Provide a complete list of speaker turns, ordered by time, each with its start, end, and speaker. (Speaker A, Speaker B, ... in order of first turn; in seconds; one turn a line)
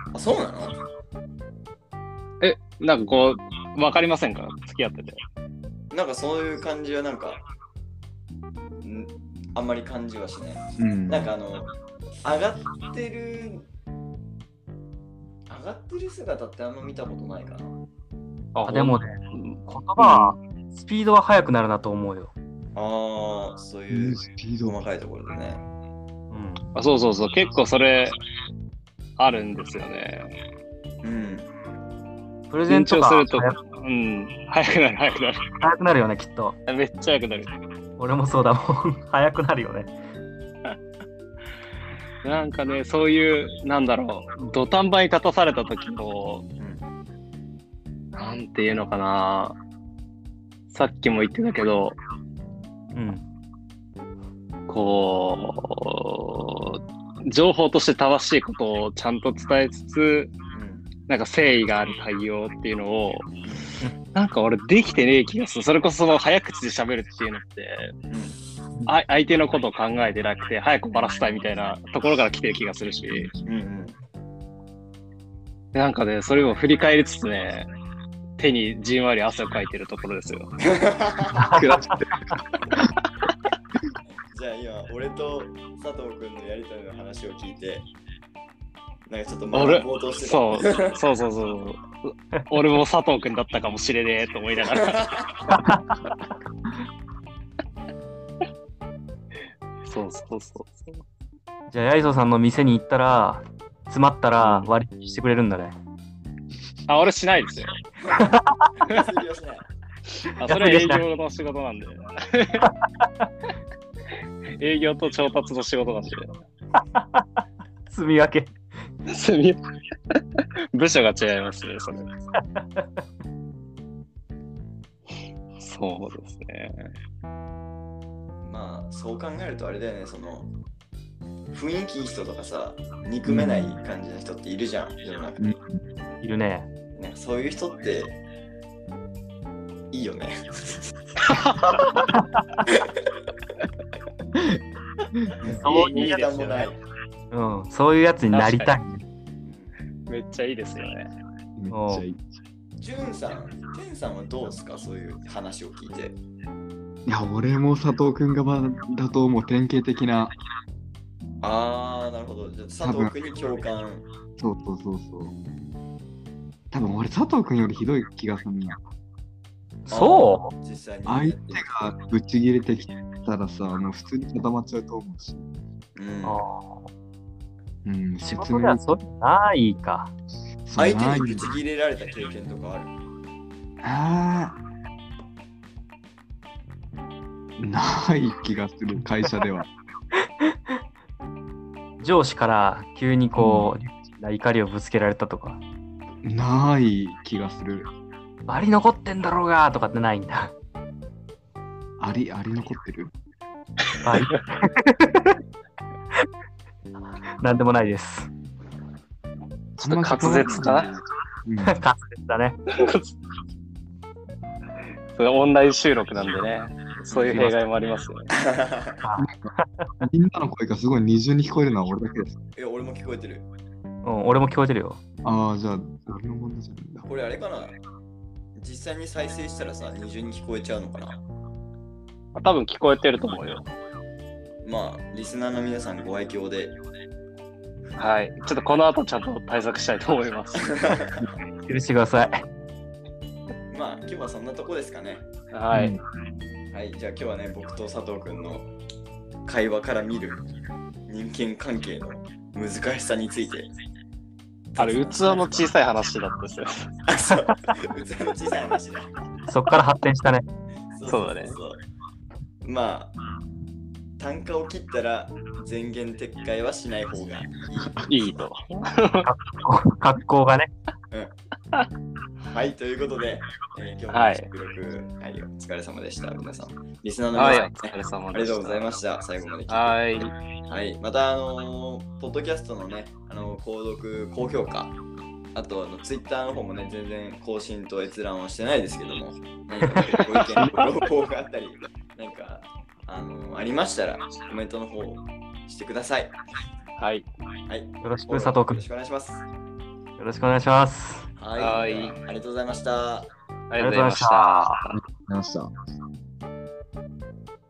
Speaker A: 0.1-0.8
Speaker B: 2.4-5.2
Speaker A: 5.9-7.4
Speaker A: 8.8-13.7
Speaker C: 10.8-11.3
Speaker A: 15.5-17.7
Speaker B: 18.6-20.3
Speaker D: 18.7-22.3
Speaker A: 22.8-25.6
Speaker C: 23.9-24.8
Speaker D: 26.3-26.6
Speaker B: 26.8-28.2
Speaker B: 29.2-30.3
Speaker A: 31.0-31.5
Speaker D: 32.5-33.6
Speaker B: 32.7-35.5
Speaker D: 35.6-36.6
Speaker B: 36.7-37.5
Speaker D: 38.0-39.9
Speaker B: 42.2-46.5
Speaker A: 46.6-46.8
Speaker B: 48.1-49.6
Speaker B: 50.7-52.0
Speaker D: 52.9-53.2
Speaker B: 54.7-60.3
Speaker A: 60.5-60.9
Speaker B: 61.1-63.3
Speaker A: 63.5-63.7
Speaker B: 64.1-67.9
Speaker A: 68.1-68.4
Speaker B: 68.9-73.3
Speaker C: 73.1-73.4
Speaker A: 73.5-74.0
Speaker B: 75.7-77.7
Speaker B: 78.4-80.5
Speaker A: 80.7-81.6
Speaker D: 81.4-81.6
Speaker C: 81.4-82.9
Speaker A: 84.3-87.9
Speaker A: 89.1-91.0
Speaker B: 89.5-95.1
Speaker A: 94.8-95.5
Speaker D: 95.5-96.1
Speaker B: 99.8-101.0
Speaker D: 101.7-105.8
Speaker B: 104.4-104.7
Speaker B: 106.9-107.8
Speaker A: 108.0-109.7
Speaker D: 108.2-108.5
Speaker B: 110.3-112.7
Speaker D: 110.5-111.0
Speaker D: 112.6-113.3
Speaker B: 114.6-116.4
Speaker D: 117.0-117.2
Speaker D: 117.9-118.5
Speaker B: 119.1-119.6
Speaker B: 120.7-122.1
Speaker D: 122.6-122.9
Speaker B: 125.6-126.9
Speaker A: 128.4-130.5
Speaker A: 131.5-135.6
Speaker C: 133.2-133.8
Speaker C: 135.4-135.8
Speaker D: 136.2-136.7
Speaker A: 137.0-138.2
Speaker A: 139.9-141.0
Speaker B: 141.3-141.9
Speaker A: 142.7-143.0
Speaker C: 144.3-144.6
Speaker C: 145.1-145.5
Speaker A: 145.4-146.8
Speaker B: 145.6-146.7
Speaker D: 145.7-146.0
Speaker D: 147.3-149.0
Speaker B: 148.3-148.7
Speaker A: 149.4-149.8
Speaker B: 150.1-151.1
Speaker C: 151.6-152.2
Speaker D: 151.7-152.0
Speaker A: 152.8-156.2
Speaker C: 157.1-160.3
Speaker A: 161.4-164.1
Speaker C: 162.8-163.1
Speaker C: 164.4-165.3
Speaker C: 166.7-168.8
Speaker D: 169.9-170.5
Speaker A: 169.9-171.8
Speaker C: 171.1-175.5
Speaker A: 176.0-176.4
Speaker D: 176.2-176.9
Speaker C: 177.8-179.0
Speaker D: 178.3-180.1
Speaker C: 180.7-181.5
Speaker A: 180.8-182.9
Speaker C: 183.8-184.6
Speaker C: 187.6-189.7
Speaker D: 192.0-195.6
Speaker C: 193.4-193.7
Speaker C: 196.2-197.9
Speaker D: 198.5-200.5
Speaker C: 202.0-203.1
Speaker D: 204.0-205.4
Speaker B: 204.0-204.4
Speaker D: 207.4-208.3
Speaker B: 209.8-210.9
Speaker C: 209.8-211.8
Speaker D: 211.7-212.6
Speaker B: 212.7-213.1
Speaker B: 215.2-218.3
Speaker A: 217.1-217.5
Speaker A: 218.3-219.0
Speaker D: 219.0-219.9
Speaker C: 219.2-222.4
Speaker A: 222.6-223.5
Speaker D: 224.0-225.0
Speaker C: 225.2-227.1
Speaker A: 227.1-227.8
Speaker A: 228.6-231.2
Speaker B: 232.3-233.7
Speaker A: 234.6-236.8
Speaker B: 238.0-240.8
Speaker A: 240.8-241.1
Speaker D: 241.7-242.4
Speaker A: 243.7-245.3
Speaker B: 245.5-246.0
Speaker C: 245.7-246.0
Speaker A: 246.7-248.7
Speaker A: 249.5-250.4
Speaker A: 251.1-253.7
Speaker A: 254.7-255.7
Speaker B: 254.8-256.9
Speaker A: 257.1-259.1
Speaker D: 259.5-260.5
Speaker A: 260.9-261.8
Speaker B: 261.1-261.6
Speaker A: 262.6-263.1
Speaker A: 264.2-268.1
Speaker B: 268.1-269.3
Speaker D: 269.3-270.7
Speaker A: 272.4-284.9
Speaker B: 274.1-274.5
Speaker B: 277.4-278.9
Speaker B: 279.7-280.4
Speaker A: 285.6-296.4
Speaker B: 290.0-290.7
Speaker B: 297.0-297.3
Speaker A: 297.7-299.4
Speaker D: 298.0-298.8
Speaker D: 300.2-301.3
Speaker A: 301.4-303.3
Speaker B: 301.6-302.2
Speaker B: 303.7-305.0
Speaker D: 303.8-304.8
Speaker C: 304.9-305.7